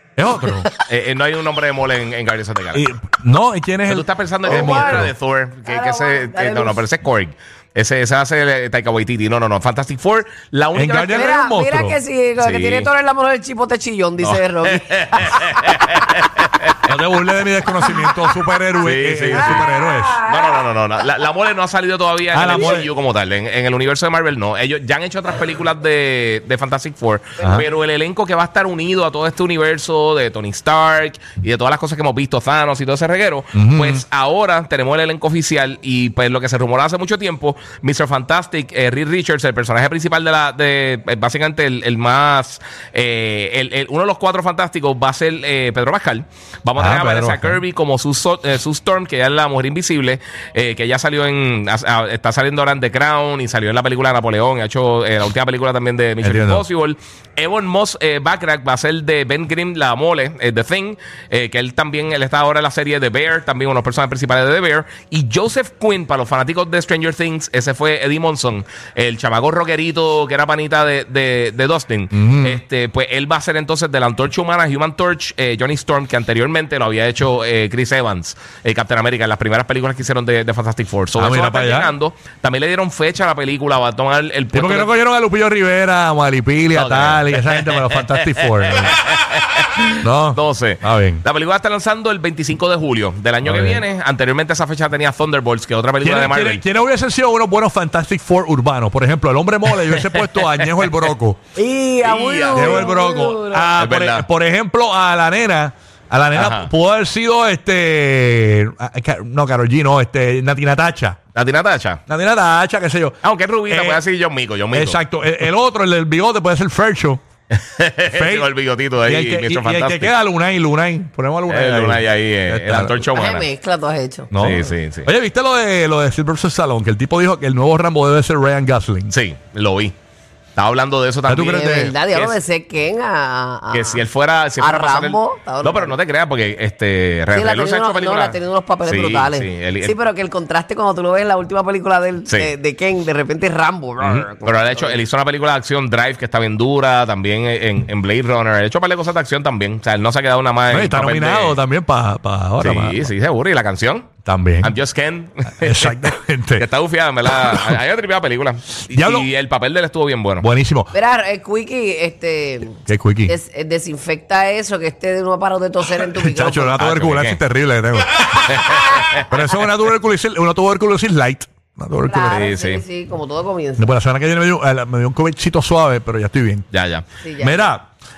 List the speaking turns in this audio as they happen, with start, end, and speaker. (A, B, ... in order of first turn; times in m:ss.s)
0:00.2-0:00.7 A
0:00.9-0:02.9 B
0:02.7-0:05.1 A
0:03.9-0:11.4 B
0:04.4-0:05.1 C
0:05.7-0:06.9 C
0:10.7-0:12.0 A
0:11.1-0:15.7 C
0:12.4-0:12.9 B
0:14.2-0:16.9 B
0:16.8-0:20.2 A
0:18.8-0:19.7 B
0:19.3-0:20.6 C
0:20.2-1:24.9 B
0:22.3-0:22.9 A
0:27.4-0:27.7 A
0:33.5-0:34.0 A
0:46.8-0:47.6 A
0:56.2-0:56.6 A
1:12.1-1:12.6 A
1:21.2-1:21.9 A
1:24.5-1:29.0 A
1:26.7-1:36.6 B
1:30.0-1:31.2 A
1:33.4-1:33.8 A
1:36.0-1:41.4 A
1:39.8-1:40.7 B
1:41.6-1:43.7 C
1:42.0-1:42.8 B
1:42.5-1:51.2 A
1:43.8-1:44.3 B
1:46.4-1:46.7 B
1:51.4-1:52.0 B
1:52.1-1:54.0 A
1:53.2-1:55.0 B
1:54.7-1:57.2 A
1:57.5-2:00.1 B
1:58.1-2:03.0 A
2:01.5-2:03.5 B
2:03.1-2:04.7 C
2:04.3-2:09.1 A
2:04.4-2:05.1 B
2:09.1-2:10.0 B
2:10.6-2:12.4 B
2:11.3-2:12.0 A
2:11.4-2:14.0 C
2:13.7-2:20.0 B
2:14.6-2:16.0 C
2:17.3-2:25.0 C
2:24.0-2:31.6 B
2:30.7-2:33.1 A
2:32.6-2:34.1 B
2:34.2-2:34.7 A
2:34.6-2:40.5 B
2:35.6-2:36.7 A
2:37.4-2:37.8 A
2:38.9-2:39.3 A
2:40.4-2:40.9 A
2:40.9-2:46.8 C
2:42.9-2:43.4 A
2:46.0-2:52.5 A
2:46.8-2:47.4 B
2:48.3-2:49.2 B
2:52.1-2:53.9 C
2:52.4-2:52.8 B
2:53.8-2:56.7 A
2:56.7-2:57.0 B
2:57.2-2:57.7 C
2:57.4-2:57.9 A